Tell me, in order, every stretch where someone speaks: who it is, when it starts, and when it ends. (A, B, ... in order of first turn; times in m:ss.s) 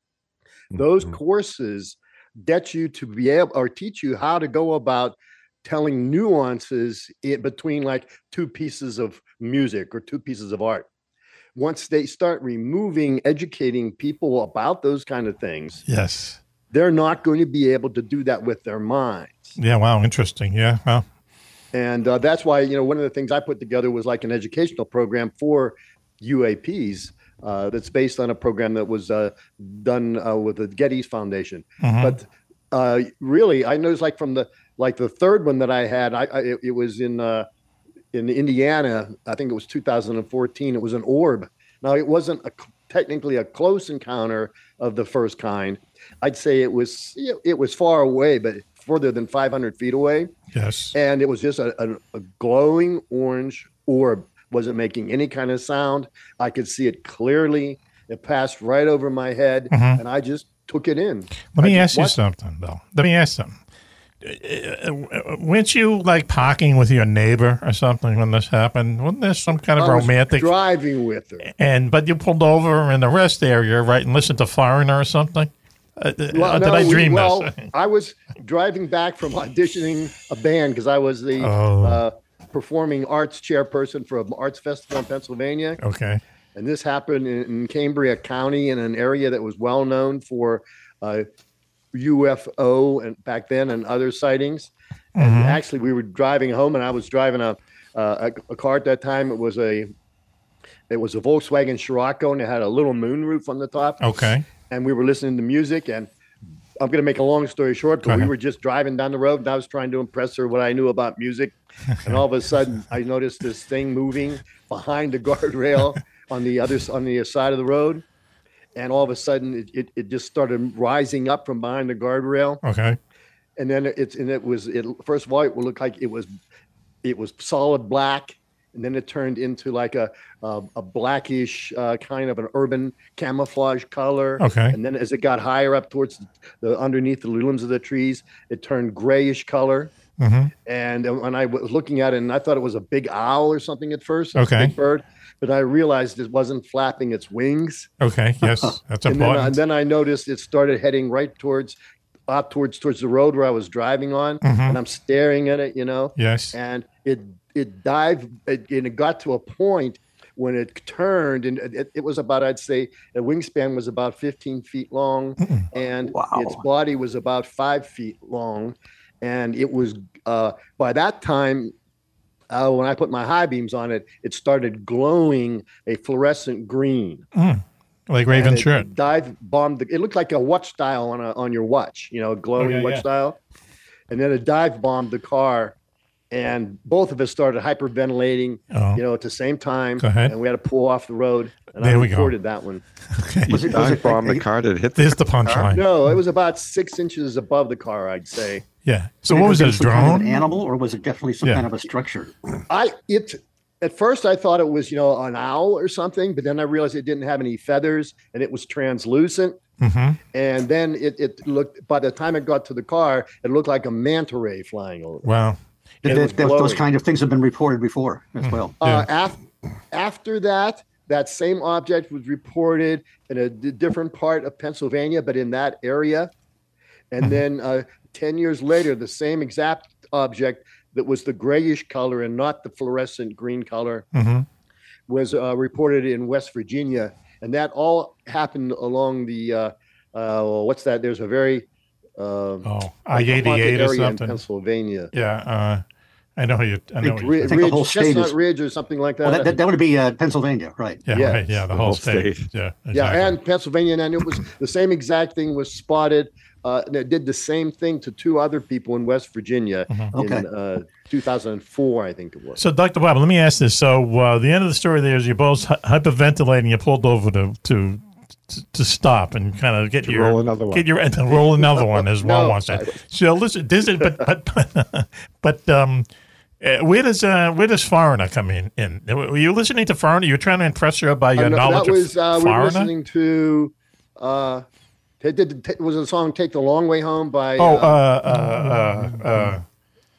0:00.7-0:10.9 A
0:11.6-0:15.8 A
0:15.9-0:16.4 B
0:16.7-0:19.6 A
0:19.6-0:21.0 B
0:21.7-0:37.5 A
0:31.8-0:32.2 B
0:38.1-0:50.3 A
0:50.5-0:51.0 B
0:51.0-1:02.2 A
0:59.7-1:00.0 B
1:01.5-1:03.6 B
1:04.2-1:10.5 B
1:09.5-1:11.5 A
1:11.5-1:17.7 B
1:16.3-1:25.8 A
1:21.4-1:22.0 B
1:25.8-1:26.2 B
1:26.6-1:31.3 A
1:31.9-1:39.9 A
1:35.2-1:35.6 B
1:40.9-1:44.0 A
1:44.0-1:44.5 B
1:44.6-1:46.1 A
1:46.8-1:58.0 A
1:48.0-1:48.3 B
1:58.8-2:02.6 A
2:02.6-2:03.0 B
2:03.6-2:06.3 A
2:07.0-2:19.9 A
2:14.4-2:14.8 B
2:20.2-2:20.5 B
2:20.6-2:27.9 A
2:24.4-2:24.8 B
2:28.0-2:29.6 B
2:29.1-2:31.8 A
2:32.3-2:51.7 A
2:34.4-2:34.8 B
2:36.2-2:36.6 B
2:46.1-2:46.6 C
2:52.5-2:57.2 A
2:57.4-2:58.9 B
2:58.3-3:03.4 A
3:02.6-3:03.0 B
3:04.1-3:05.8 A
3:06.3-3:12.8 A
3:08.7-3:09.0 B
3:10.0-3:10.4 B
3:11.8-3:12.3 B
3:13.2-3:13.6 B
3:13.5-3:15.8 D
3:13.5-3:14.4 C
3:15.0-3:15.9 B
3:15.7-3:18.7 A
3:18.8-3:20.4 B
3:19.3-3:22.3 C
3:22.7-3:29.6 A
3:29.8-3:30.2 B
3:30.3-3:35.3 A
3:35.2-3:35.6 B
3:36.0-3:36.8 A
3:36.0-3:38.8 C
3:38.8-3:39.4 A
3:38.8-3:39.1 B
3:39.9-3:46.3 A
3:47.1-3:54.1 A
3:54.1-3:54.5 B
3:55.1-4:01.7 A
4:02.2-4:05.1 A
4:02.6-4:04.4 B
4:05.1-4:05.8 B
4:06.4-4:07.8 B
4:07.0-4:09.6 A
4:07.4-4:08.4 C
4:09.2-4:11.0 C
4:11.1-4:13.4 B
4:11.1-4:11.4 A
4:11.7-4:12.5 D
4:12.9-4:22.6 A
4:19.9-4:20.2 B
4:20.1-4:20.5 C
4:22.6-4:36.1 B
4:30.0-4:30.9 D
4:31.7-4:33.0 A
4:36.6-4:42.9 B
4:41.4-4:44.6 A
4:45.2-4:48.0 A
4:47.6-4:49.6 B